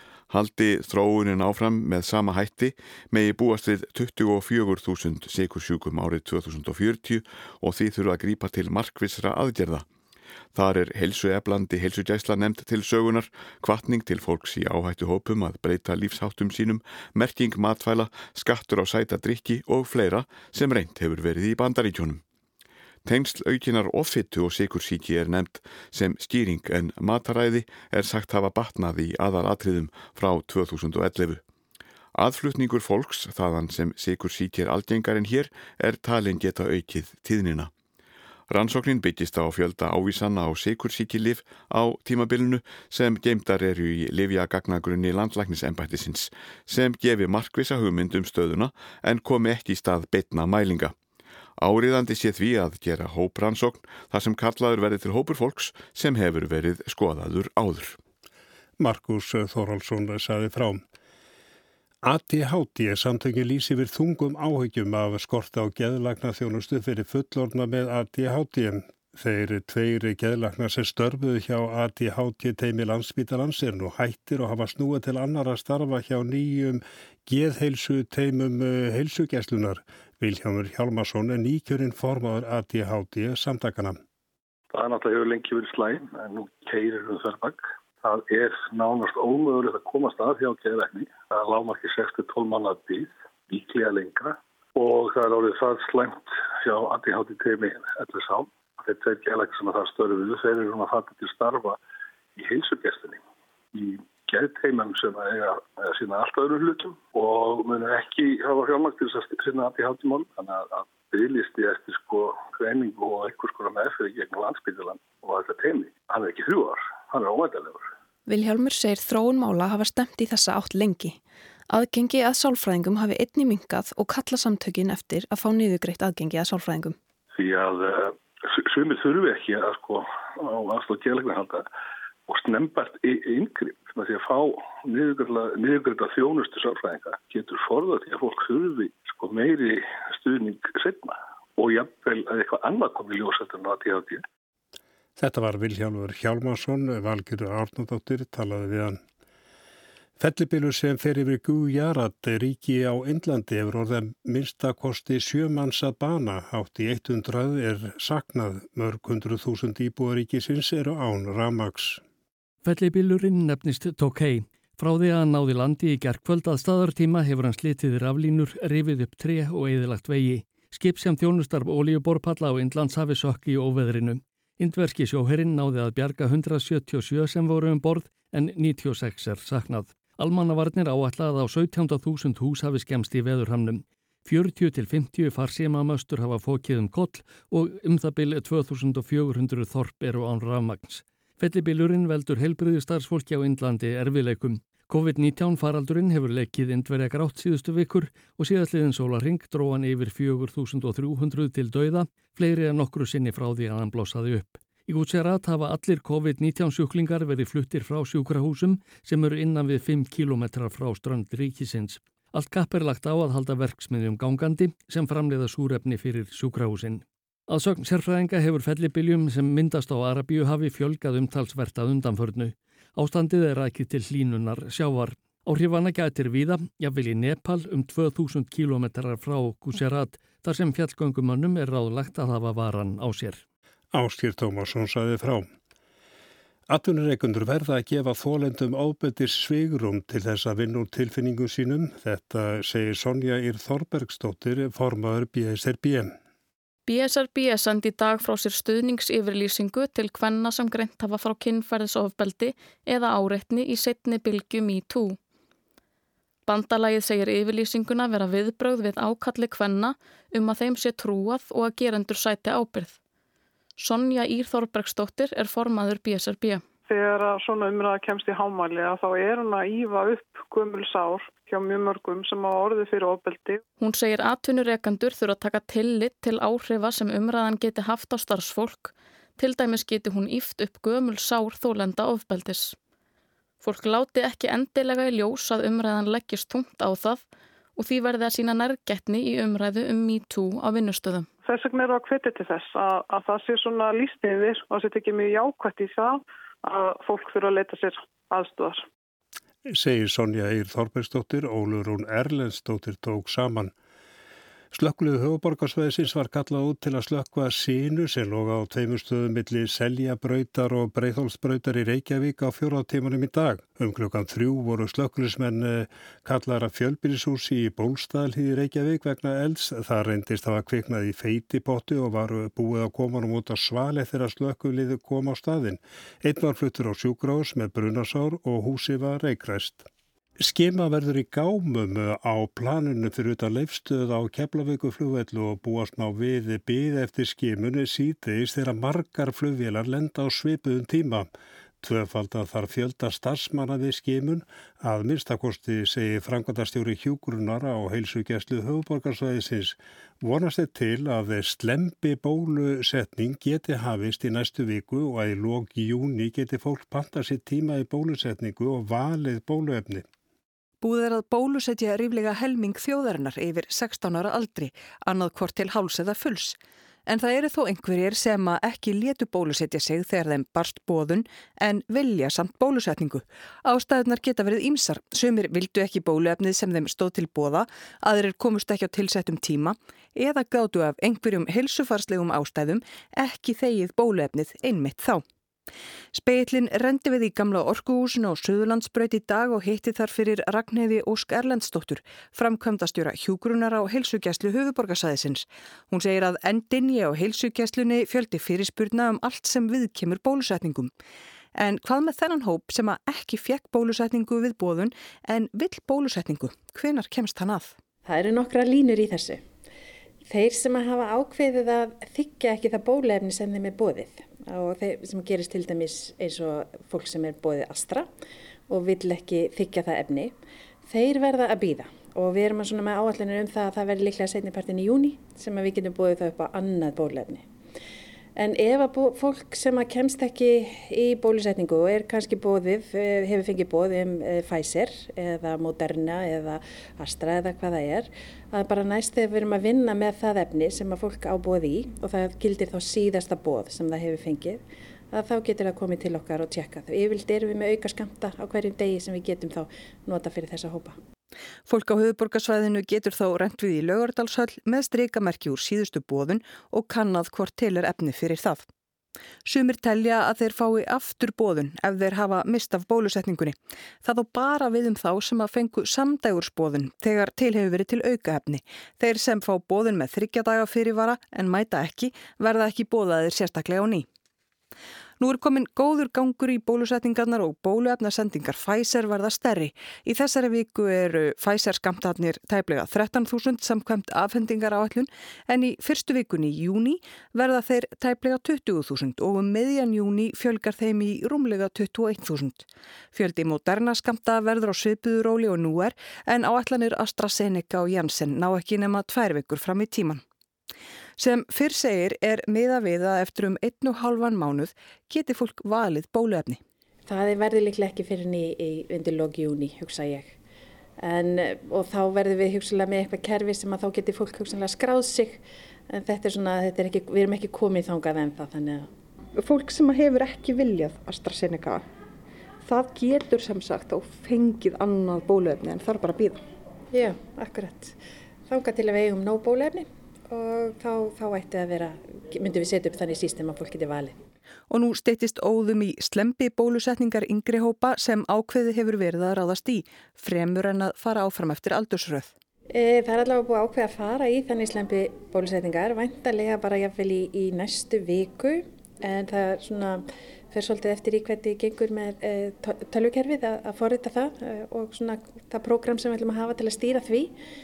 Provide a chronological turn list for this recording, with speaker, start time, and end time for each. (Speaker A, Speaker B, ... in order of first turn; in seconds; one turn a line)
Speaker A: 0.3-9.8
Speaker A: 10.5-22.2
Speaker A: 23.0-31.4
Speaker A: 32.1-37.7
Speaker A: 38.5-50.9
Speaker A: 51.6-58.0
Speaker B: 58.8-60.8
Speaker B: 62.0-84.0
Speaker C: 84.7-101.8
Speaker C: 102.3-103.2
Speaker C: 103.7-117.9
Speaker D: 118.2-126.9
Speaker C: 127.3-131.7
Speaker C: 132.3-144.2
Speaker B: 145.2-149.0
Speaker B: 150.2-162.0
Speaker E: 162.6-233.4
Speaker B: 233.9-235.4
Speaker B: 236.7-246.1
Speaker F: 246.8-255.2
Speaker F: 256.4-263.0
Speaker F: 263.8-266.6
Speaker G: 266.9-273.6
Speaker F: 273.8-282.8
Speaker F: 283.6-287.2
Speaker F: 287.8-291.3
Speaker G: 291.4-296.1
Speaker G: 296.6-298.7
Speaker B: 299.7-303.7
Speaker B: 304.7-329.9
Speaker B: 330.4-341.3
Speaker B: 341.8-360.0
Speaker H: 360.8-385.2
Speaker H: 386.1-400.9
Speaker H: 401.6-407.8
Speaker I: 408.1-409.4
Speaker I: 410.3-418.1
Speaker I: 418.7-420.3
Speaker I: 420.9-427.4
Speaker I: 428.4-450.9
Speaker H: 451.7-458.6
Speaker H: 459.4-474.1
Speaker H: 475.2-500.2
Speaker H: 501.2-506.6
Speaker I: 507.1-510.3
Speaker I: 511.0-518.9
Speaker J: 519.4-521.8
Speaker J: 522.6-526.4
Speaker I: 526.9-528.0
Speaker I: 528.5-534.1
Speaker H: 534.7-542.3
Speaker I: 542.7-557.3